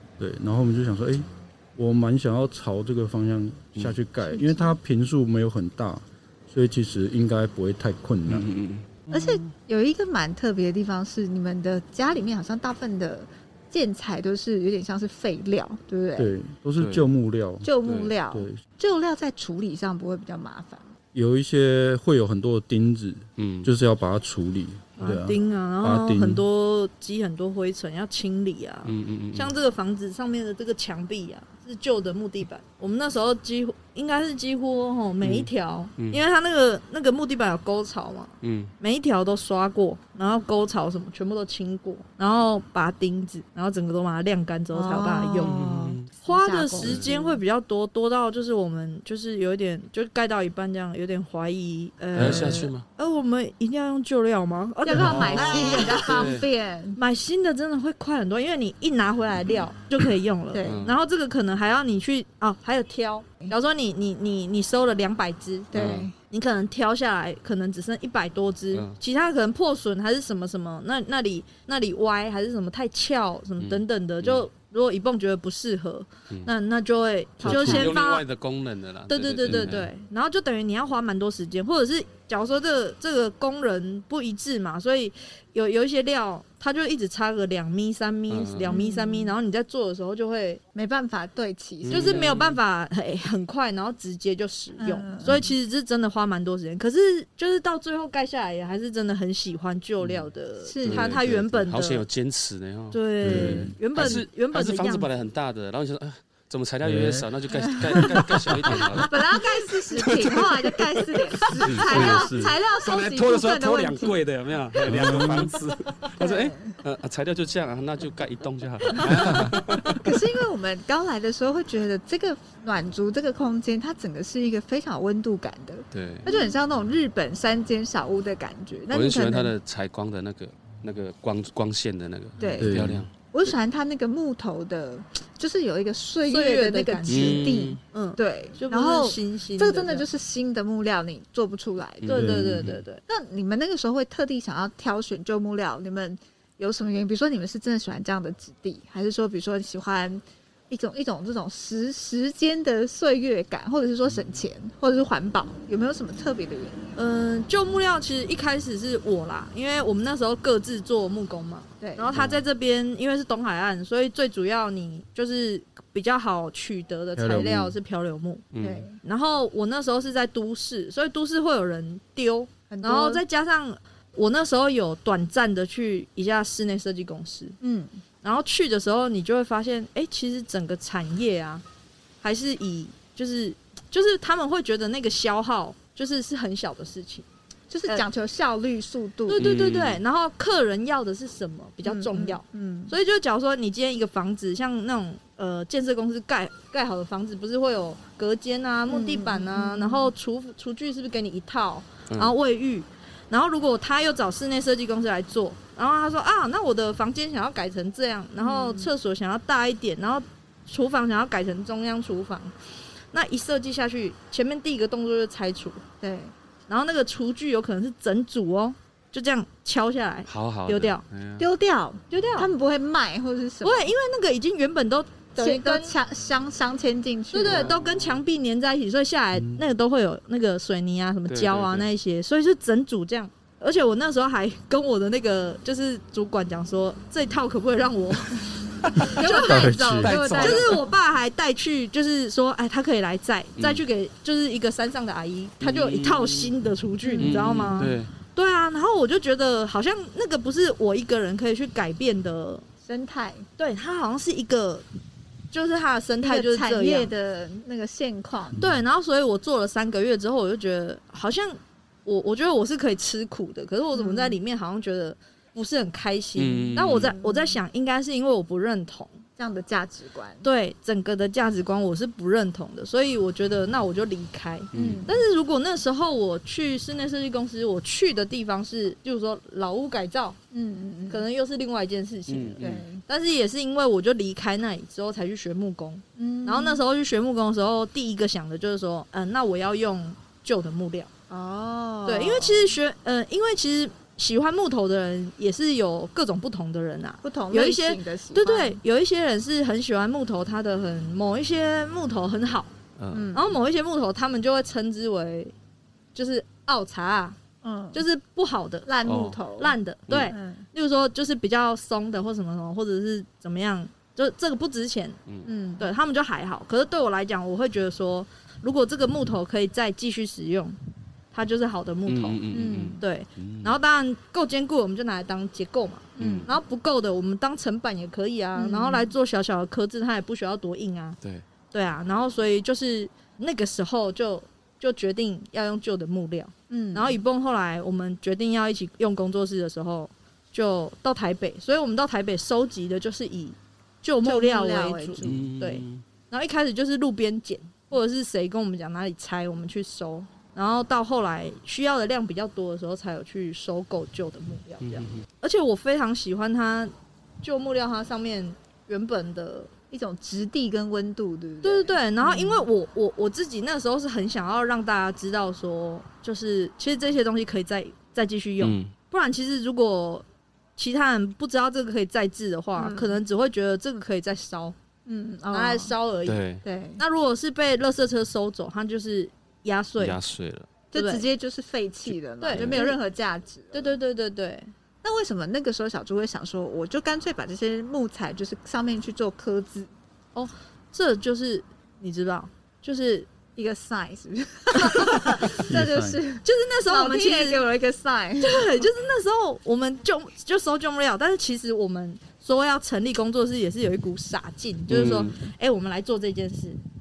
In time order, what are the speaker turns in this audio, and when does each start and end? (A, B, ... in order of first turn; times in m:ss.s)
0:00.2-0:08.5 A
0:04.3-0:04.7 B
0:08.3-0:09.0 C
0:09.1-0:16.3 B
0:16.2-0:17.7 A
0:16.8-0:17.1 C
0:17.6-0:20.9 B
0:17.8-0:18.1 C
0:18.3-0:18.6 A
0:21.1-0:26.4 A
0:23.4-0:23.7 C
0:25.0-0:45.6 D
0:28.8-0:29.5 C
0:35.2-0:36.2 C
0:38.4-0:38.7 C
0:44.7-0:47.4 B
0:45.4-0:46.1 C
0:46.2-0:56.3 D
0:46.8-0:47.1 C
0:52.2-0:52.8 C
0:52.2-0:52.4 A
0:52.2-0:52.7 B
0:54.8-0:57.0 B
0:54.9-0:56.4 C
0:57.0-1:05.7 D
1:00.5-1:00.8 B
1:00.6-1:01.0 C
1:05.7-1:06.1 B
1:05.7-1:06.1 C
1:06.3-1:18.2 D
1:08.7-1:09.0 C
1:13.6-1:14.4 C
1:17.4-1:17.9 B
1:17.4-1:19.9 C
1:19.1-1:30.6 D
1:28.3-1:28.8 C
1:28.7-1:29.4 B
1:30.7-1:32.3 B
1:31.8-1:32.6 C
1:31.9-1:42.0 D
1:34.8-1:35.5 B
1:40.6-1:41.2 B
1:40.8-1:49.2 C
1:42.9-1:45.1 D
1:43.2-1:44.2 A
1:46.8-1:47.3 A
1:47.6-1:48.0 B
1:47.8-1:49.1 A
1:48.9-1:54.1 B
1:49.9-2:00.0 C
1:51.6-1:52.5 A
1:54.8-1:55.5 A
1:56.2-1:56.8 B
1:59.0-1:59.4 B
1:59.2-1:59.6 A
2:00.0-2:09.5 B
2:05.9-2:06.3 C
2:06.2-2:06.5 D
2:08.9-2:13.1 C
2:12.4-2:22.2 B
2:12.6-2:13.0 A
2:16.3-2:20.0 D
2:17.1-2:17.8 C
2:22.0-2:22.7 C
2:22.1-2:23.0 D
2:22.1-2:22.7 A
2:23.1-2:36.8 B
2:37.0-2:48.4 D
2:41.8-2:42.1 B
2:42.1-2:42.4 C
2:47.2-2:47.8 A
2:48.5-2:48.8 C
2:48.6-2:49.0 B
2:49.0-2:57.6 D
2:52.7-2:53.2 B
2:57.6-2:58.0 B
2:58.2-3:01.6 D
3:02.2-3:07.2 D
3:07.7-3:09.5 B
3:09.3-3:32.5 D
3:09.4-3:10.0 C
3:11.8-3:12.9 B
3:18.9-3:20.1 B
3:28.4-3:28.9 B
3:33.1-3:35.8 D
3:36.0-3:36.3 B
3:36.7-3:41.0 D
3:40.3-3:41.5 C
3:41.4-3:43.9 B
3:42.1-3:42.5 D
3:43.6-3:45.9 D
3:45.3-3:47.7 B
3:47.3-3:58.5 D
3:47.4-3:48.2 C
3:49.4-3:49.6 A
3:51.3-3:51.9 C
3:58.9-3:59.1 C
3:59.0-3:59.8 D
3:59.1-4:00.8 B
3:59.2-4:00.2 A
4:00.0-4:00.8 C
4:00.3-4:12.6 D
4:05.6-4:06.5 C
4:07.0-4:07.8 B
4:07.2-4:08.1 C
4:12.8-4:13.4 B
4:13.6-4:14.8 D
4:15.5-4:17.1 D
4:16.2-4:18.6 B
4:18.6-4:29.2 D
4:23.9-4:24.4 B
4:26.4-4:27.1 C
4:27.0-4:27.6 B
4:29.4-4:30.4 B
4:30.4-4:40.4 D
4:34.7-4:35.0 C
4:34.7-4:35.2 B
4:40.5-4:41.2 B
4:41.1-4:51.1 D
4:42.3-4:42.8 C
4:42.6-4:43.0 B
4:46.2-4:46.8 B
4:51.3-4:52.8 B
4:52.0-5:02.7 D
4:57.2-4:58.8 B
5:03.0-5:03.3 C
5:03.1-5:03.5 B
5:03.3-5:05.5 D
5:06.1-5:07.4 D
5:07.6-5:08.0 B
5:07.9-5:08.9 D
5:08.8-5:09.7 B
5:09.0-5:09.4 C
5:09.6-5:15.2 D
5:10.1-5:10.3 C
5:10.3-5:10.6 B
5:15.4-5:15.9 B
5:15.8-5:20.8 D
5:21.3-5:22.4 D
5:22.1-5:23.8 C
5:22.5-5:23.0 B
5:23.0-5:31.2 D
5:26.2-5:26.5 B
5:26.2-5:26.5 C
5:28.5-5:29.1 B
5:31.7-5:59.7 D
5:36.7-5:37.2 B
5:44.2-5:45.5 B
5:45.2-5:46.0 C
5:54.8-5:55.2 C
5:59.9-6:02.7 B
6:01.6-6:10.2 D
6:08.6-6:08.9 C
6:10.8-6:14.7 D
6:12.8-6:13.2 B
6:15.0-6:15.9 B
6:15.5-6:16.4 D
6:16.2-6:16.6 C
6:16.6-6:17.0 B
6:17.0-6:20.2 D
6:20.0-6:20.7 C
6:20.9-6:24.0 B
6:20.9-6:21.2 D
6:22.4-6:23.0 D
6:22.5-6:22.8 C
6:23.7-6:24.7 D
6:25.0-6:29.9 B
6:30.3-6:33.3 D
6:33.6-6:38.9 B
6:34.8-6:35.6 D
6:35.4-6:36.2 A
6:36.4-6:37.6 D
6:38.4-6:46.8 D
6:44.9-6:45.3 C